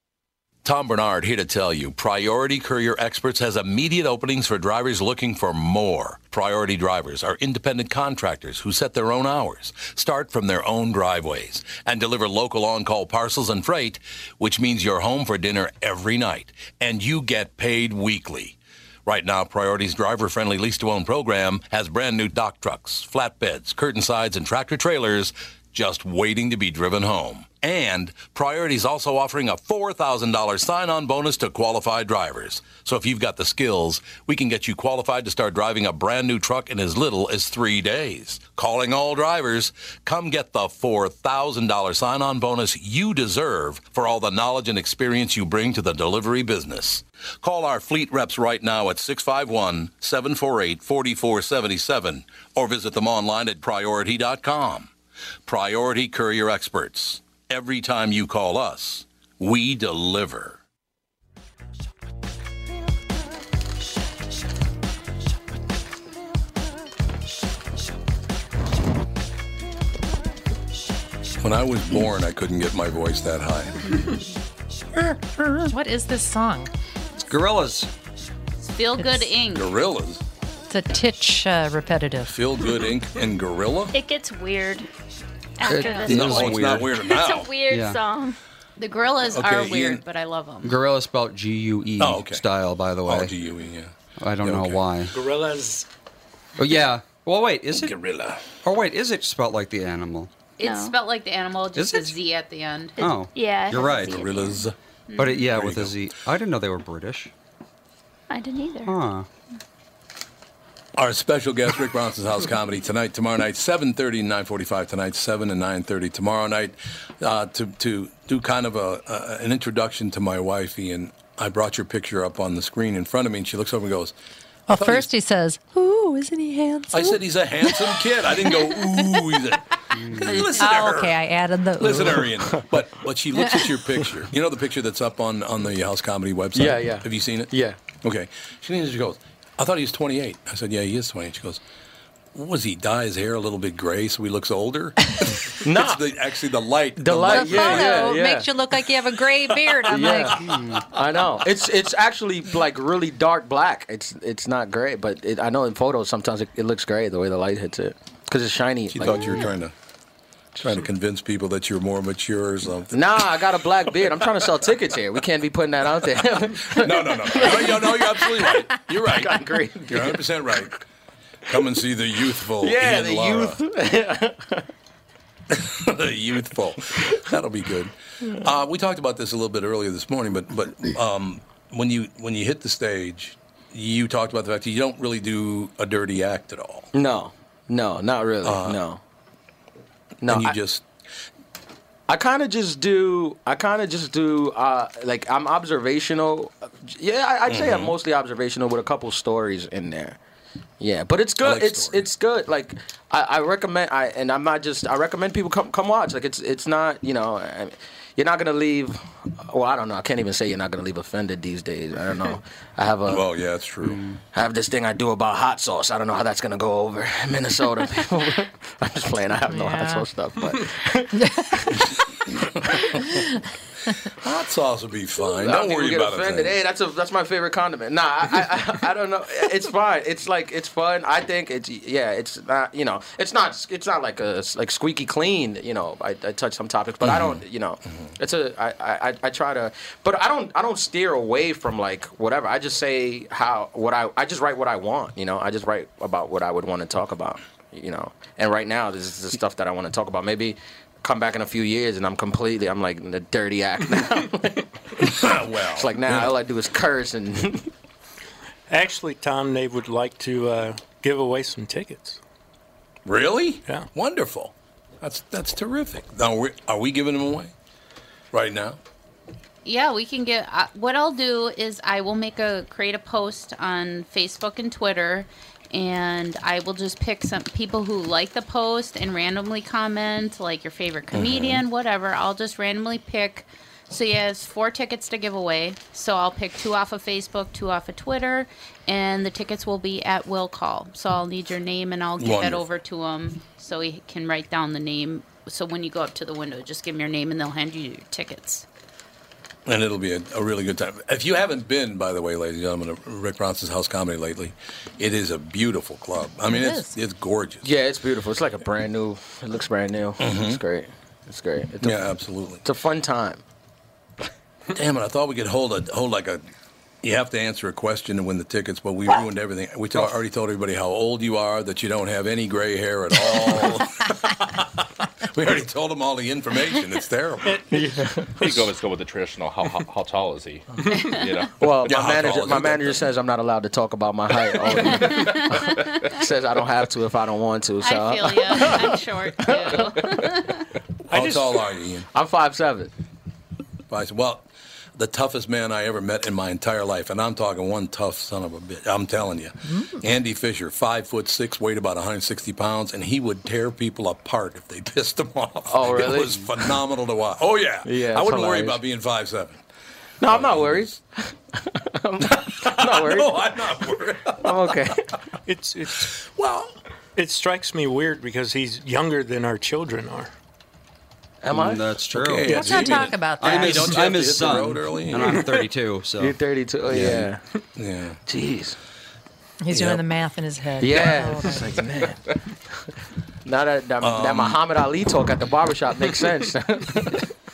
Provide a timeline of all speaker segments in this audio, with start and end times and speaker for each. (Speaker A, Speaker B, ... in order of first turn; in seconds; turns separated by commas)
Speaker A: 0.6-54.9, Speaker A: 55.5-60.6, Speaker A: 71.4-74.1, Speaker B: 75.6-76.7, Speaker C: 77.2-77.9, Speaker D: 78.6-79.7, Speaker B: 79.0-79.3, Speaker A: 79.5-80.2, Speaker B: 80.7-82.4, Speaker A: 82.2-84.0, Speaker E: 83.9-84.9, Speaker E: 85.6-88.4, Speaker C: 85.7-86.9, Speaker B: 85.7-86.1, Speaker A: 86.0-87.5, Speaker C: 87.7-88.0, Speaker D: 88.8-90.8, Speaker A: 89.3-90.0, Speaker C: 90.6-93.3, Speaker A: 92.0-92.4, Speaker A: 93.0-94.8, Speaker C: 94.2-95.1, Speaker F: 95.1-95.9, Speaker C: 96.6-98.0, Speaker A: 97.7-98.4, Speaker C: 98.6-100.3, Speaker D: 100.6-103.0, Speaker E: 100.6-100.9, Speaker C: 101.7-102.1, Speaker C: 103.0-104.3, Speaker E: 103.0-104.6, Speaker A: 103.8-104.7, Speaker D: 105.1-105.5, Speaker C: 105.2-107.3, Speaker A: 105.5-106.0, Speaker E: 108.3-108.9, Speaker C: 108.8-109.3, Speaker A: 111.0-124.1, Speaker B: 124.7-129.2, Speaker A: 124.7-125.1, Speaker A: 126.9-131.2, Speaker C: 129.9-130.4, Speaker B: 130.6-132.3, Speaker A: 131.8-141.6, Speaker G: 136.5-137.8, Speaker A: 142.3-148.2, Speaker G: 145.6-146.0, Speaker G: 147.0-148.5, Speaker B: 147.3-150.5, Speaker G: 149.9-159.5, Speaker C: 150.4-150.9, Speaker A: 158.9-159.7, Speaker A: 160.6-163.3, Speaker G: 162.9-170.3, Speaker A: 166.6-170.8, Speaker A: 171.5-173.6, Speaker G: 172.6-174.7, Speaker A: 175.5-186.9, Speaker G: 186.9-189.0, Speaker A: 188.4-188.8, Speaker G: 190.2-190.6, Speaker A: 190.2-190.8, Speaker G: 192.1-200.2, Speaker A: 197.5-197.9, Speaker G: 200.8-213.2, Speaker A: 201.4-202.1, Speaker A: 213.1-214.0, Speaker C: 213.8-214.2, Speaker G: 214.3-221.9, Speaker B: 219.5-220.1, Speaker B: 221.2-221.5, Speaker A: 221.8-223.0, Speaker A: 224.0-226.6, Speaker G: 225.4-254.7, Speaker A: 237.0-237.4, Speaker A: 255.0-256.3, Speaker G: 255.7-257.7, Speaker F: 258.7-262.2, Speaker A: 263.1-267.5, Speaker A: 268.3-268.8, Speaker D: 269.6-298.6, Speaker A: 281.1-281.6, Speaker A: 292.2-292.6, Speaker A: 299.6-307.7, Speaker B: 306.5-306.9, Speaker G: 307.6-312.1, Speaker A: 310.2-310.6, Speaker A: 311.8-312.6, Speaker G: 312.6-313.4, Speaker A: 314.7-316.4, Speaker A: 317.0-327.6, Speaker G: 327.7-328.6, Speaker H: 328.4-331.5, Speaker G: 331.6-340.0, Speaker A: 331.8-333.0, Speaker D: 337.8-340.6, Speaker F: 341.1-341.5, Speaker A: 341.1-342.1, Speaker G: 342.1-342.9, Speaker A: 343.9-359.6, Speaker G: 355.7-356.4, Speaker G: 357.8-358.8, Speaker G: 360.2-363.4, Speaker A: 360.2-360.9, Speaker A: 362.2-364.8, Speaker G: 364.4-365.1, Speaker F: 365.4-366.1, Speaker A: 366.0-366.7, Speaker F: 367.1-370.3, Speaker G: 371.4-371.9, Speaker C: 371.5-376.4, Speaker A: 372.1-375.4, Speaker B: 372.4-374.1, Speaker G: 376.2-377.4, Speaker A: 376.9-377.2, Speaker A: 377.8-378.2, Speaker G: 378.3-378.8, Speaker B: 379.6-381.8, Speaker A: 379.7-380.0, Speaker G: 380.8-382.2, Speaker G: 383.4-387.3, Speaker A: 384.0-384.6